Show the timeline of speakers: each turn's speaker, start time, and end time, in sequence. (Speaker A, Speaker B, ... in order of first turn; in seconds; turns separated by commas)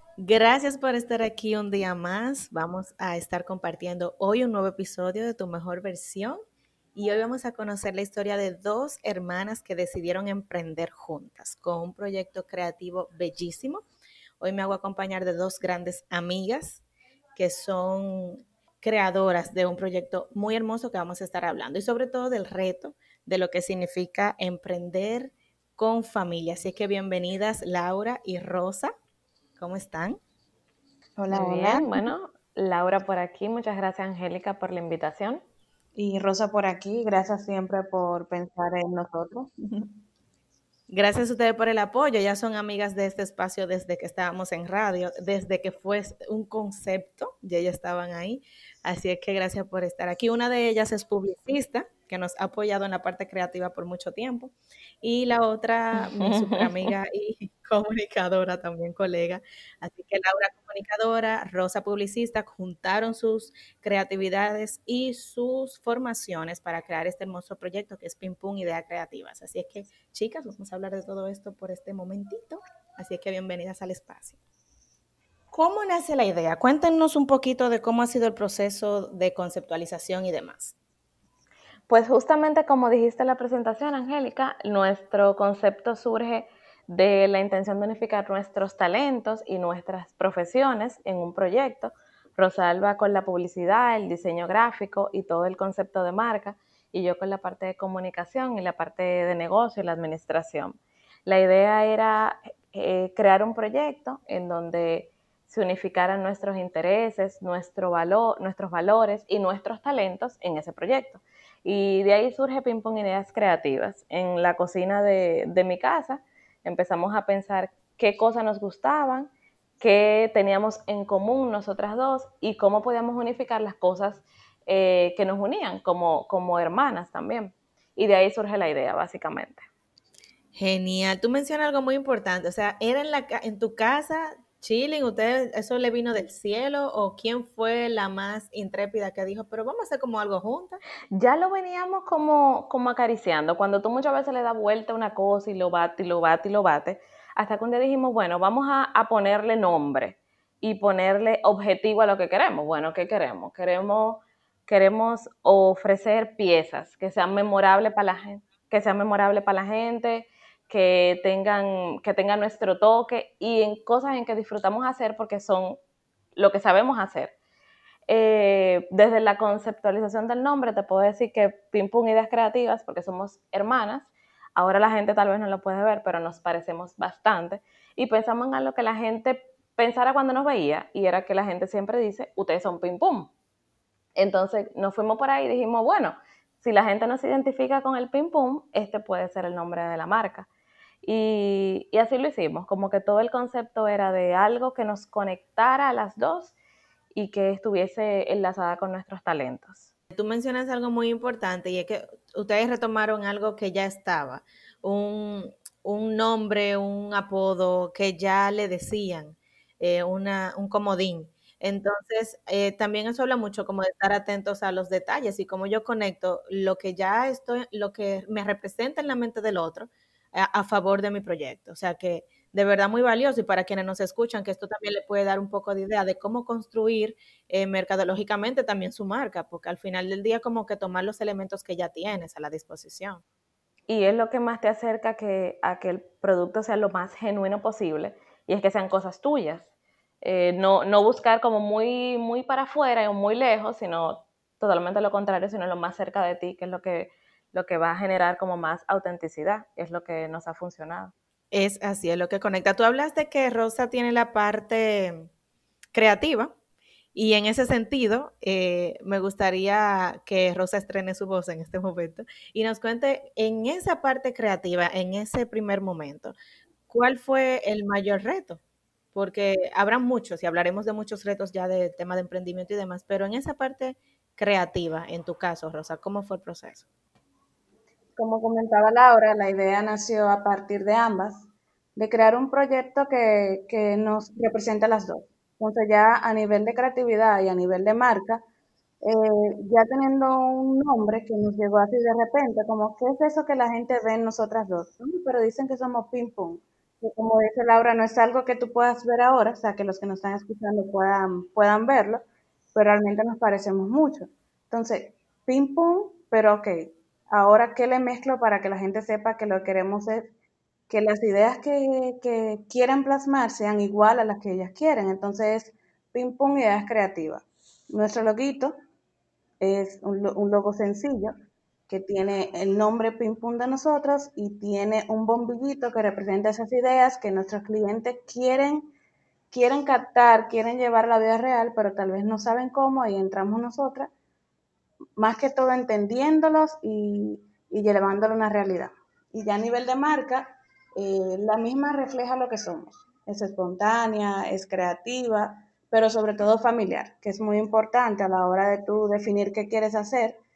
Speaker A: 0.2-6.4, Speaker A: 7.0-13.8, Speaker A: 14.4-16.8, Speaker A: 17.4-28.9, Speaker A: 29.6-30.2, Speaker B: 31.2-32.1, Speaker C: 31.3-35.4, Speaker B: 36.0-39.9, Speaker A: 40.9-74.4, Speaker C: 56.0-56.9, Speaker A: 75.5-80.8, Speaker C: 81.9-129.7, Speaker A: 130.6-140.8, Speaker C: 141.1-165.8, Speaker C: 166.4-167.3, Speaker C: 168.1-183.3, Speaker C: 184.2-190.5, Speaker C: 191.0-196.6, Speaker C: 197.2-199.9, Speaker A: 200.1-233.2, Speaker C: 233.9-239.7, Speaker C: 240.2-251.1, Speaker A: 251.5-255.3, Speaker A: 255.9-256.5, Speaker A: 257.1-266.4, Speaker A: 266.9-268.6, Speaker A: 269.1-276.9, Speaker B: 278.2-288.4, Speaker B: 289.0-310.3, Speaker B: 310.9-318.8, Speaker B: 319.6-321.3, Speaker B: 321.9-328.9, Speaker B: 329.5-334.1, Speaker B: 335.2-350.4